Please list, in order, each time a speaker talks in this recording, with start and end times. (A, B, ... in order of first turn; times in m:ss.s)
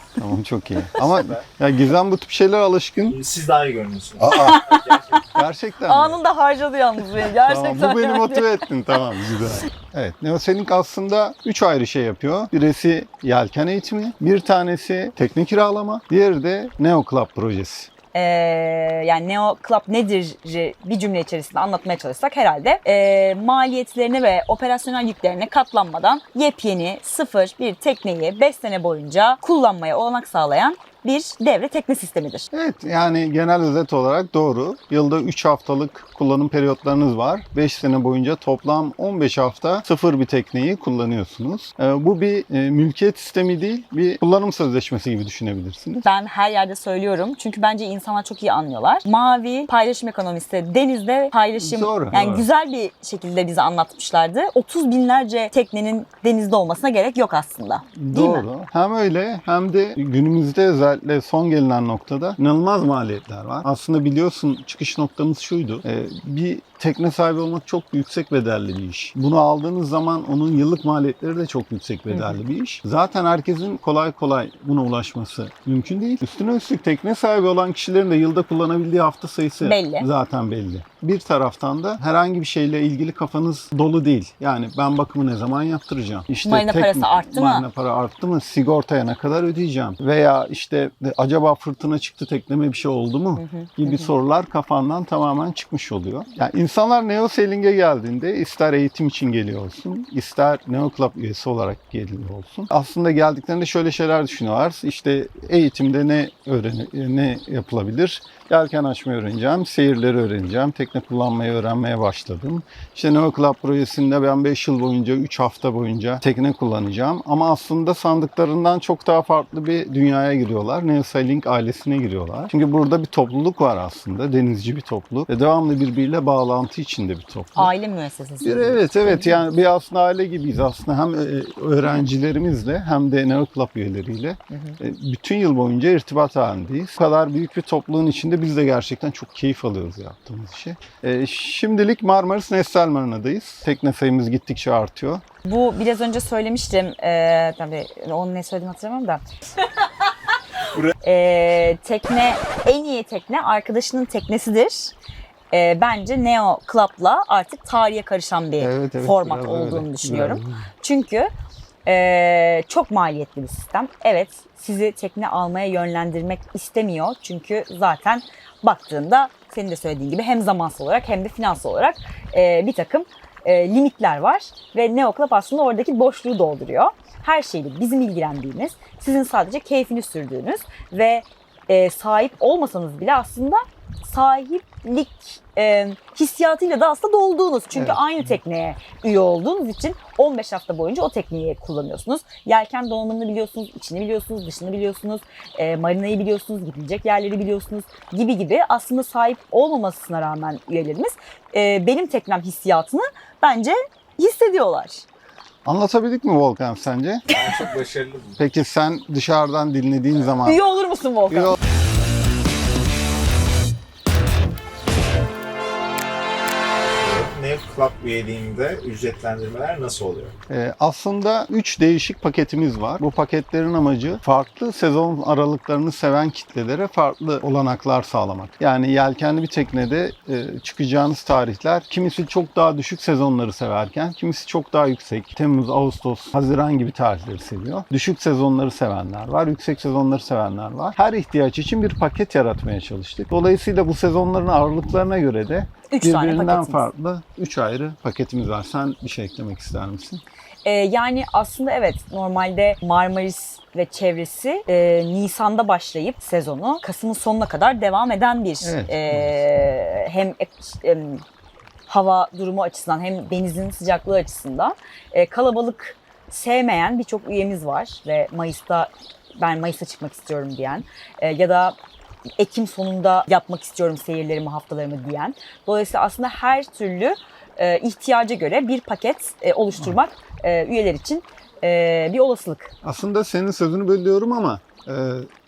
0:00.2-0:03.2 A
0:01.2-0:01.4 B
0:03.1-0:05.2 B
0:04.2-0:04.6 A
0:04.3-0:04.8 C
0:05.3-0:06.2 A
0:05.8-0:09.0 C
0:07.2-0:17.9 A
0:18.1-0:32.5 C
0:32.5-0:46.0 A
0:46.0-0:58.5 C
0:51.6-0:52.5 A
0:58.0-2:07.7 A
1:12.1-1:12.4 C
1:19.6-1:20.1 C
1:26.4-1:27.6 C
1:33.4-1:34.1 C
2:07.6-2:09.4 C
2:08.4-2:25.2 A
2:14.5-2:14.8 C
2:25.4-2:29.2 C
2:31.0-2:34.9 C
2:35.5-2:41.3 C
2:38.6-2:40.7 A
2:41.8-3:25.0 C
3:07.7-3:08.4 A
3:25.6-3:27.2 A
3:27.3-3:28.4 B
3:28.4-3:30.6 A
3:30.4-3:31.6 C
3:31.3-3:31.6 A
3:36.9-3:40.3 B
3:40.5-4:10.2 A
4:05.9-4:06.9 C
4:10.6-4:21.2 C
4:18.6-4:19.4 A
4:21.9-4:31.8 C
4:32.4-4:42.7 C
4:42.8-4:45.3 A